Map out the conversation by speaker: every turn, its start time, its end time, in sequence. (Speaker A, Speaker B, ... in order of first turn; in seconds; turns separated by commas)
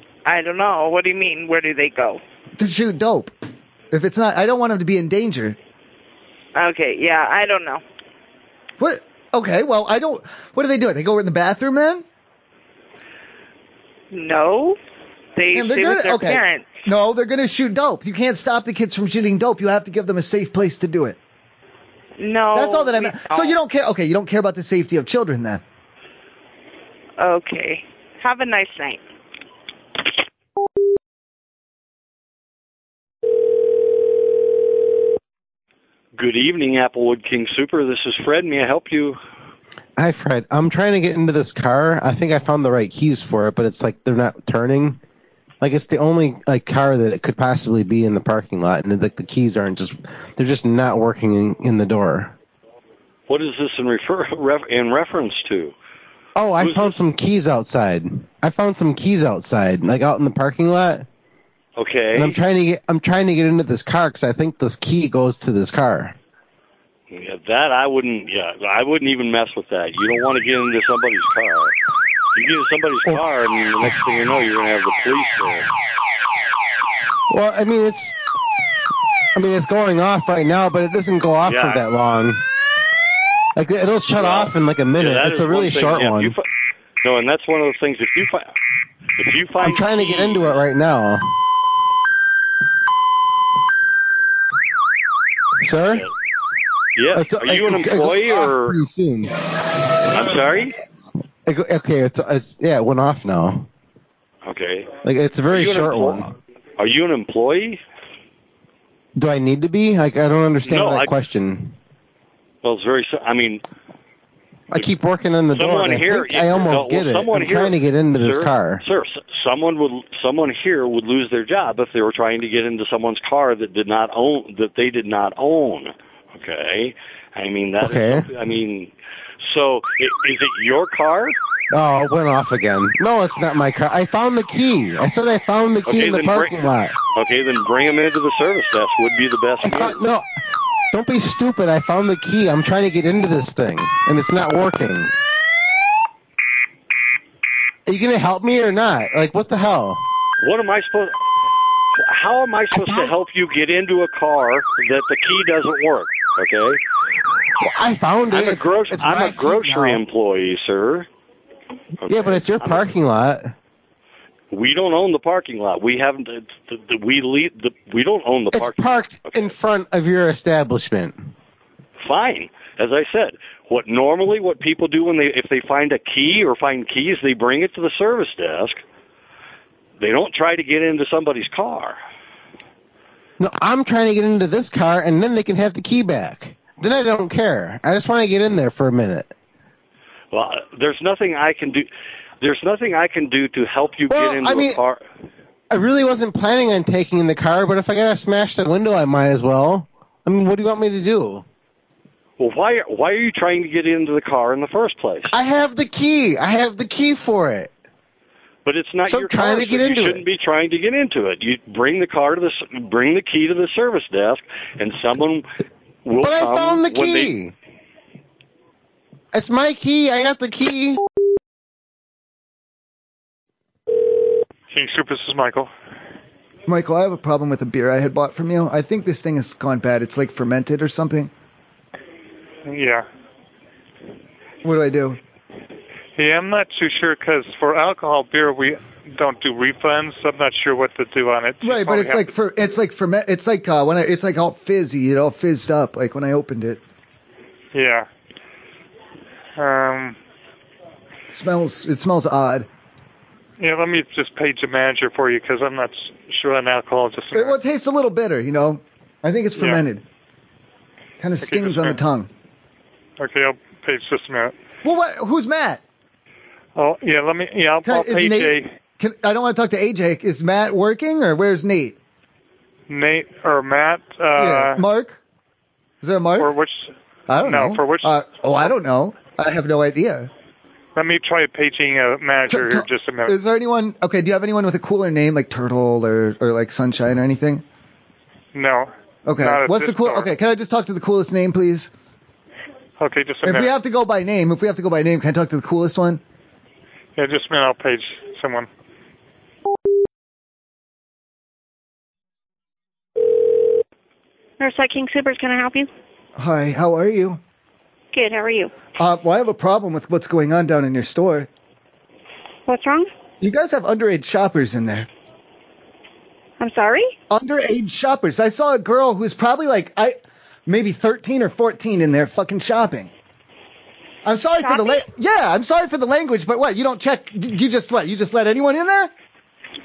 Speaker A: 0.2-2.2, Speaker B: 2.6-3.3, Speaker B: 3.9-5.6, Speaker A: 6.5-7.8, Speaker B: 8.8-12.0, Speaker A: 14.1-14.8, Speaker A: 15.3-16.7, Speaker B: 15.5-21.2, Speaker A: 22.2-23.5, Speaker B: 22.5-25.6, Speaker A: 27.2-29.0, Speaker C: 36.1-39.2, Speaker D: 40.0-45.0, Speaker D: 45.6-52.3, Speaker C: 53.3-55.7, Speaker D: 56.4-61.0, Speaker C: 56.6-57.0, Speaker C: 61.8-62.4, Speaker D: 62.1-66.2, Speaker C: 67.1-71.7, Speaker C: 72.3-75.7, Speaker D: 77.3-78.2, Speaker D: 79.3-82.4, Speaker C: 81.4-81.8, Speaker D: 83.5-86.4, Speaker C: 84.2-86.4, Speaker C: 87.0-88.5, Speaker C: 89.2-90.6, Speaker D: 89.6-91.3, Speaker D: 95.6-96.1, Speaker C: 97.0-98.8, Speaker D: 97.1-99.3, Speaker C: 100.1-100.7, Speaker D: 101.5-103.7, Speaker C: 104.4-105.0, Speaker D: 105.0-106.3, Speaker C: 105.5-107.8, Speaker D: 109.2-111.8, Speaker C: 110.7-111.1, Speaker C: 112.6-113.6, Speaker D: 114.7-118.8, Speaker C: 115.5-131.3, Speaker D: 127.8-128.3, Speaker D: 131.7-137.0, Speaker C: 135.9-140.0, Speaker D: 139.6-140.3, Speaker D: 140.9-145.1, Speaker D: 147.9-150.0, Speaker C: 150.4-151.1, Speaker C: 152.0-156.8, Speaker D: 152.7-153.1, Speaker D: 157.6-160.0, Speaker C: 158.3-161.1, Speaker C: 162.0-162.9, Speaker D: 162.1-163.5, Speaker C: 164.5-169.5, Speaker D: 168.5-171.3, Speaker C: 172.0-178.8, Speaker C: 180.0-182.0, Speaker D: 183.4-189.3, Speaker C: 190.3-191.9, Speaker C: 192.4-195.0, Speaker D: 194.1-194.8, Speaker D: 195.7-201.4, Speaker C: 202.4-205.3, Speaker D: 205.3-207.7, Speaker C: 208.7-215.4, Speaker D: 209.1-210.2, Speaker C: 216.0-217.3, Speaker D: 216.2-217.5, Speaker D: 219.3-221.0, Speaker E: 224.7-225.7, Speaker B: 226.7-231.3, Speaker E: 232.7-233.0, Speaker B: 234.6-235.2, Speaker E: 236.2-242.3, Speaker B: 241.6-246.8, Speaker E: 247.7-248.1, Speaker E: 249.6-250.2, Speaker B: 251.3-252.7, Speaker E: 253.6-257.6, Speaker B: 257.3-260.0, Speaker B: 261.2-262.3, Speaker E: 261.4-262.0, Speaker E: 263.2-264.5, Speaker B: 264.8-265.8, Speaker E: 266.8-268.7, Speaker B: 267.8-271.9, Speaker E: 272.9-274.8, Speaker B: 274.3-275.2, Speaker B: 276.0-276.5, Speaker E: 276.4-278.7, Speaker B: 277.3-280.3, Speaker E: 280.9-283.4, Speaker B: 282.5-287.6, Speaker E: 288.5-290.3, Speaker B: 289.2-291.9, Speaker E: 293.0-293.7, Speaker B: 293.4-296.2, Speaker E: 297.2-298.7, Speaker F: 304.6-305.9, Speaker B: 306.4-307.4, Speaker F: 308.1-308.7, Speaker B: 309.0-311.5, Speaker F: 312.7-313.1, Speaker B: 313.4-315.1, Speaker F: 316.6-317.1, Speaker B: 317.3-320.1, Speaker B: 320.7-323.1, Speaker B: 324.2-329.1, Speaker F: 324.6-325.0